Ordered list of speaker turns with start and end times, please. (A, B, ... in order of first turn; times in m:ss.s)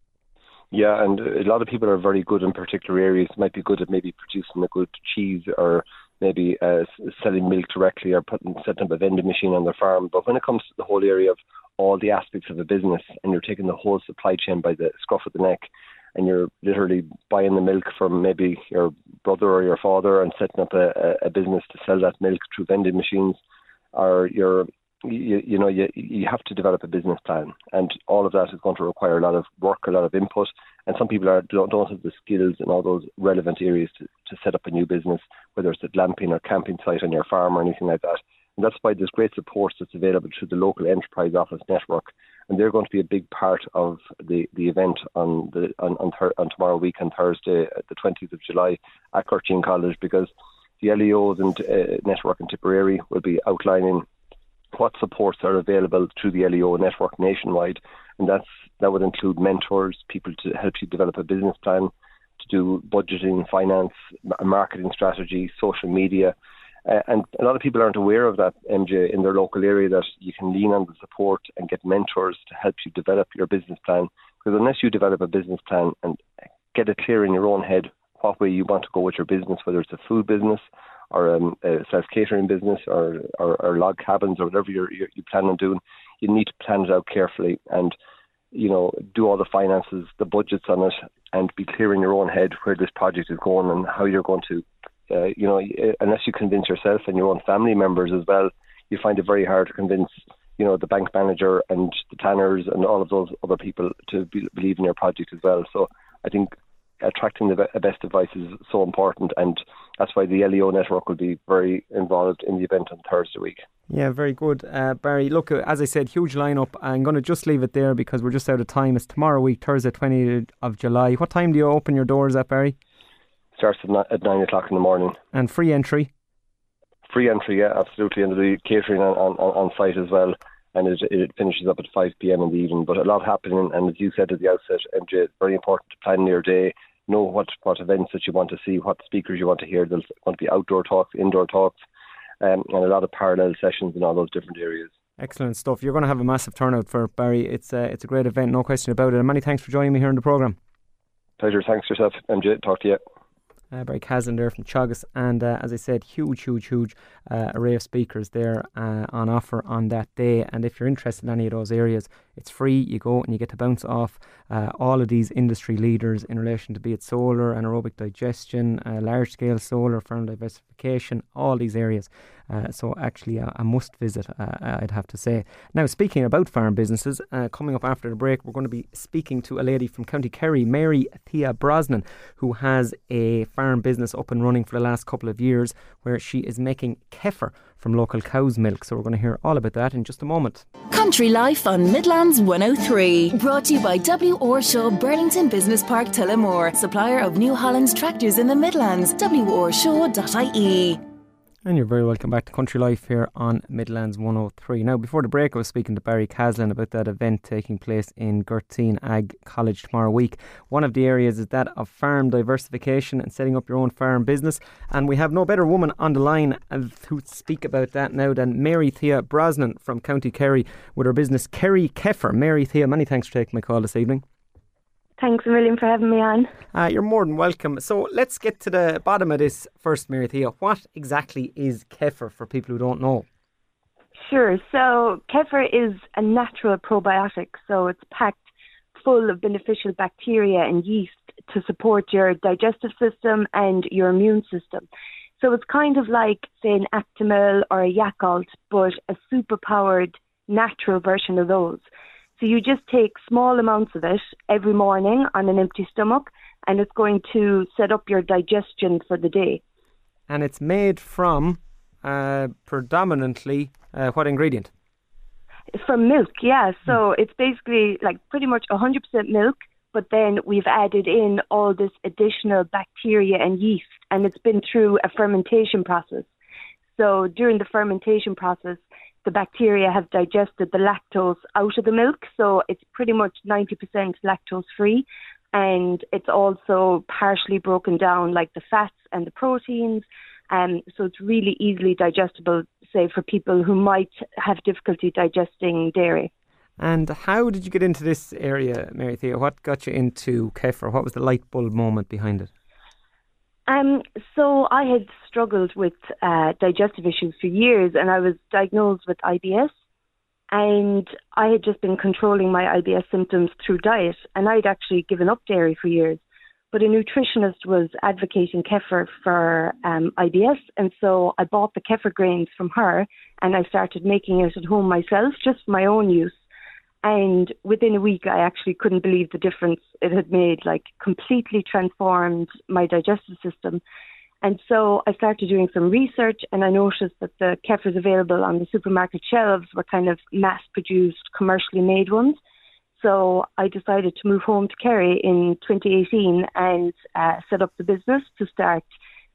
0:00.7-0:23.4 A
0:23.9-0:50.3 A
0:50.8-0:54.1 A
0:54.7-1:28.0 A
1:28.5-1:53.6 A
1:53.9-2:02.8 B
2:03.6-2:05.2 A
2:05.3-2:06.1 B
2:07.1-2:21.8 A
2:22.4-2:24.9 A
2:25.2-2:30.6 B
2:31.4-2:33.0 A
2:33.7-3:10.7 B
3:10.9-3:21.0 C
3:21.6-3:44.2 B
3:45.2-3:46.5 D
3:46.7-3:53.3 B
3:54.2-3:58.4 D
3:59.0-4:04.9 D
4:05.4-4:11.8 D
4:12.4-4:19.6 D
4:20.3-4:24.7 B
4:25.7-4:36.3 D
4:37.0-4:56.3 D
4:56.8-5:02.5 B
5:03.7-5:09.7 D
5:10.5-5:16.2 D
5:16.7-5:26.4 D
5:27.0-5:33.8 D
5:34.4-5:42.4 D
5:43.0-5:48.9 D